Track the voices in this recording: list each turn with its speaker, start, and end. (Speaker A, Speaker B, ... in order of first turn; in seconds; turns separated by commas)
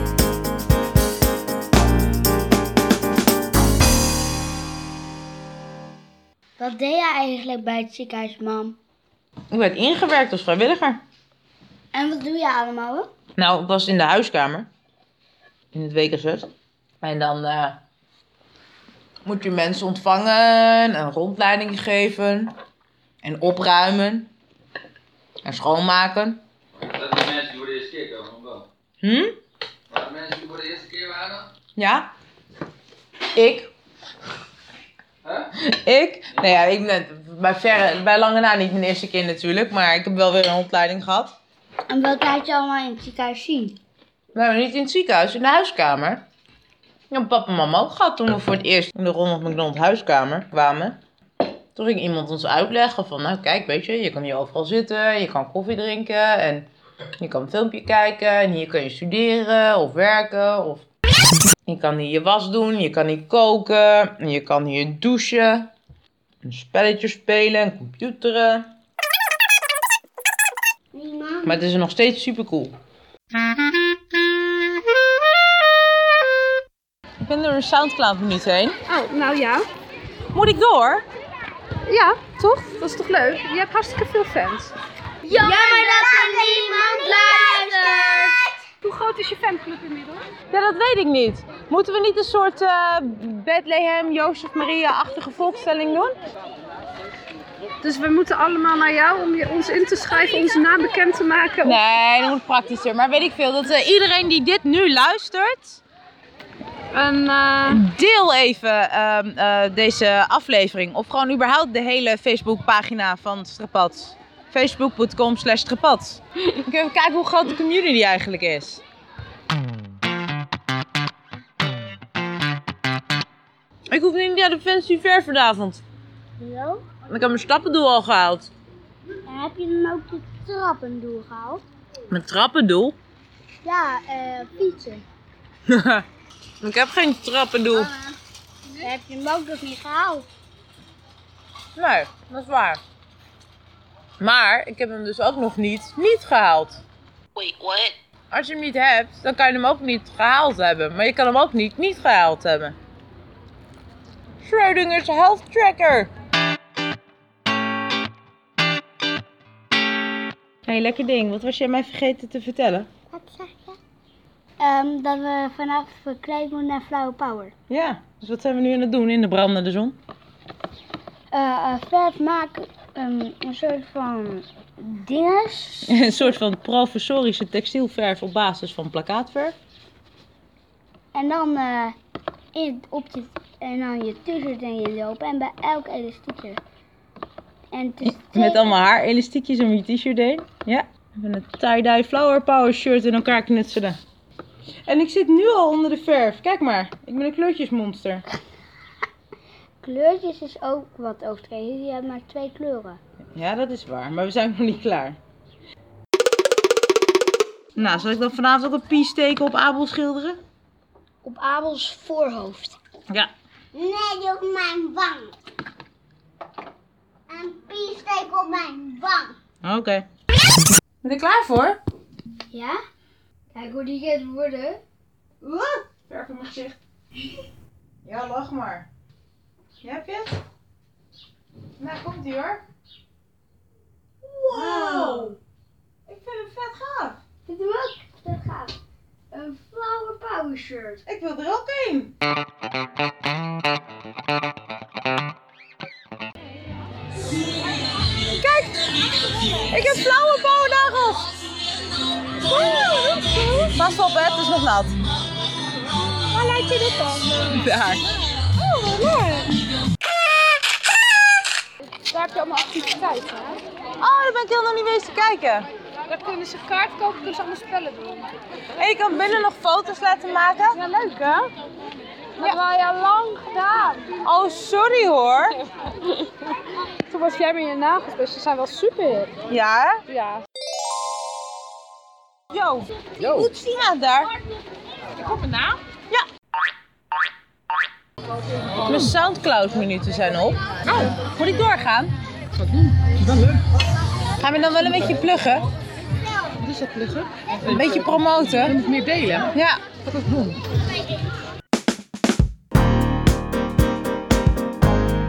Speaker A: 6.6-8.8, Speaker B: 9.5-11.0, Speaker A: 11.9-13.1, Speaker B: 13.4-14.7, Speaker B: 15.7-16.5, Speaker B: 17.0-17.8, Speaker B: 19.2-22.5, Speaker B: 23.2-24.3, Speaker B: 25.4-26.4, Speaker C: 26.8-28.6, Speaker B: 29.0-29.3, Speaker C: 29.9-31.5, Speaker B: 31.8-32.1, Speaker B: 33.3-33.7, Speaker B: 35.5-41.4, Speaker A: 41.9-43.8, Speaker B: 44.3-46.2, Speaker B: 47.1-51.0, Speaker B: 51.7-56.7, Speaker B: 57.2-60.9, Speaker B: 61.6-65.7, Speaker B: 66.4-68.7, Speaker A: 70.9-71.6, Speaker B: 71.4-72.7, Speaker B: 77.2-78.8, Speaker D: 78.9-79.7, Speaker B: 80.3-81.0, Speaker D: 81.8-84.7, Speaker D: 85.2-87.1, Speaker A: 85.3-88.4, Speaker C: 86.4-88.0, Speaker D: 88.8-90.3, Speaker B: 90.5-96.1, Speaker D: 97.8-101.8, Speaker B: 101.6-105.8, Speaker D: 106.9-107.8, Speaker B: 107.7-118.8, Speaker B: 123.9-125.8, Speaker A: 126.4-126.8, Speaker B: 127.1-128.5, Speaker A: 129.2-131.6, Speaker B: 132.1-132.9, Speaker A: 133.6-135.0, Speaker B: 135.7-136.1, Speaker B: 136.6-137.9, Speaker A: 138.8-140.2, Speaker B: 141.7-142.8, Speaker B: 144.2-146.8, Speaker B: 147.4-152.8, Speaker B: 154.4-156.1, Speaker B: 160.7-162.9, Speaker A: 163.1-163.8, Speaker A: 164.6-167.5, Speaker B: 167.7-170.0, Speaker A: 171.3-175.9, Speaker B: 175.8-179.6, Speaker A: 181.1-181.9, Speaker A: 182.5-186.6, Speaker A: 187.7-188.8, Speaker B: 188.0-194.0, Speaker B: 194.8-198.2, Speaker A: 199.8-203.0, Speaker B: 203.3-205.2, Speaker B: 207.7-210.4, Speaker A: 211.2-212.8, Speaker A: 213.7-215.3, Speaker A: 217.3-219.4, Speaker B: 219.6-220.0, Speaker B: 221.0-221.8, Speaker A: 222.5-222.8, Speaker A: 223.5-224.8, Speaker B: 225.4-226.8, Speaker B: 228.0-228.9, Speaker B: 229.8-230.4, Speaker B: 231.8-232.6, Speaker B: 234.2-235.3, Speaker A: 234.4-235.4, Speaker B: 236.1-237.2, Speaker A: 237.4-238.8, Speaker A: 239.3-241.0, Speaker B: 241.0-242.1, Speaker B: 248.3-248.8, Speaker B: 249.6-251.3, Speaker D: 252.5-253.7, Speaker B: 253.6-255.0, Speaker D: 256.2-257.6, Speaker B: 257.5-258.1, Speaker D: 258.4-259.5, Speaker D: 262.1-263.6, Speaker B: 264.0-265.7, Speaker D: 266.1-268.3, Speaker B: 268.8-270.8, Speaker D: 270.7-271.5, Speaker D: 272.4-274.1, Speaker B: 274.2-275.6, Speaker D: 277.1-279.3, Speaker B: 279.5-280.0, Speaker D: 280.1-280.4, Speaker B: 282.5-284.3, Speaker B: 285.2-286.2, Speaker B: 288.8-292.1, Speaker B: 293.2-293.5, Speaker B: 294.4-295.6, Speaker B: 296.6-299.8